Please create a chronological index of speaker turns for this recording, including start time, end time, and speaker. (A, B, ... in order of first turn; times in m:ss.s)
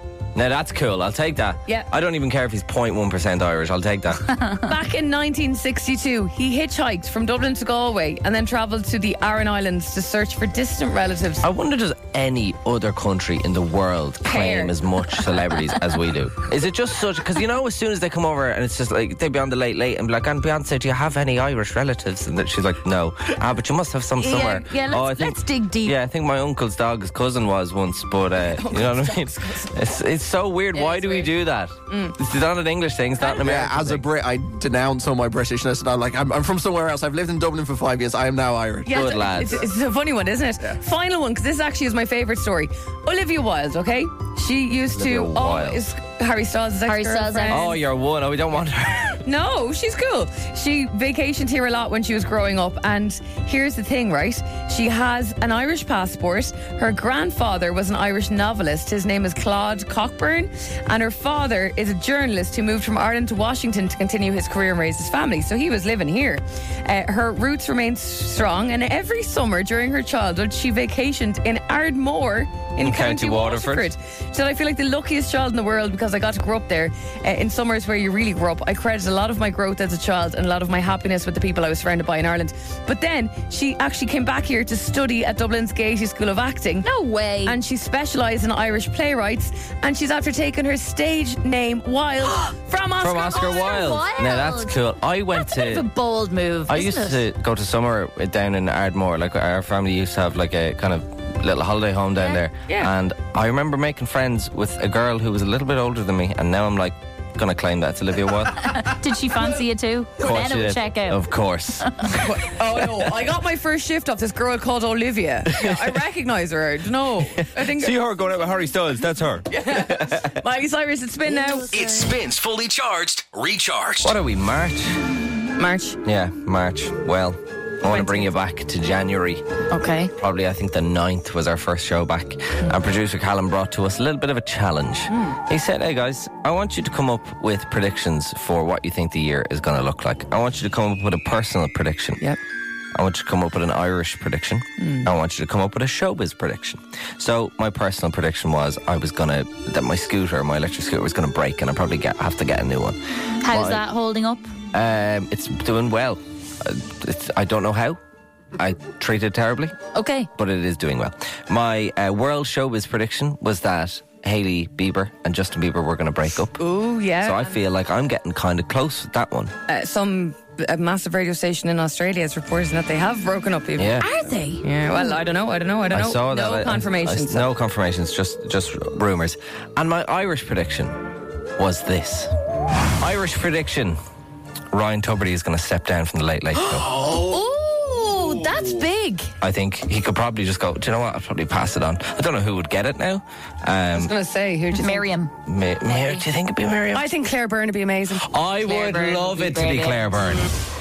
0:00.4-0:04.3 A
0:04.2-0:04.7 B
0:04.6-0:11.4 C
0:11.4-0:34.1 A
0:14.2-0:14.8 C
0:24.2-0:26.0 B
0:28.4-0:29.8 C
0:30.7-0:31.3 C
0:31.9-0:32.2 C
0:33.4-0:39.7 D
0:38.8-0:47.7 C
0:38.9-0:39.7 A
0:44.9-0:45.8 A
0:46.9-0:47.7 B
0:47.5-0:49.2 A
0:49.2-1:26.9 C
1:12.8-1:13.9 A
1:26.8-1:27.6 B
1:27.4-1:33.7 C
1:33.0-1:35.9 A
1:33.3-1:34.8 B
1:35.3-1:37.2 B
1:36.7-1:48.9 A
1:48.6-1:51.2 B
1:50.2-1:53.0 A
1:52.2-1:58.0 C
1:55.5-1:56.0 A
1:57.4-2:00.3 A
1:59.5-2:01.8 C
2:01.7-2:04.2 E
2:04.0-2:05.0 A
2:05.6-2:06.0 C
2:06.0-2:09.4 A
2:07.9-2:08.3 C
2:09.7-2:10.1 B
2:10.2-2:22.2 A
2:15.1-2:15.4 C
2:23.0-2:33.8 A
2:24.8-2:25.1 C
2:33.4-2:34.5 B
2:34.7-2:38.0 A
2:38.6-2:39.8 A
2:39.9-2:40.3 B
2:40.4-2:46.6 A
2:46.6-2:47.6 C
2:47.2-2:49.6 A
2:49.7-2:54.0 C
2:53.8-2:54.1 A
2:54.0-2:55.1 B
2:54.6-2:57.5 C
2:55.9-3:02.3 A
3:03.0-3:04.0 A
3:04.7-3:07.0 A
3:06.9-3:09.3 B
3:09.4-3:14.1 A
3:14.0-3:15.1 C
3:14.7-3:15.3 B
3:15.5-3:17.1 A
3:15.9-3:16.2 B
3:16.9-3:18.3 C
3:18.2-3:20.5 A
3:18.6-3:20.0 B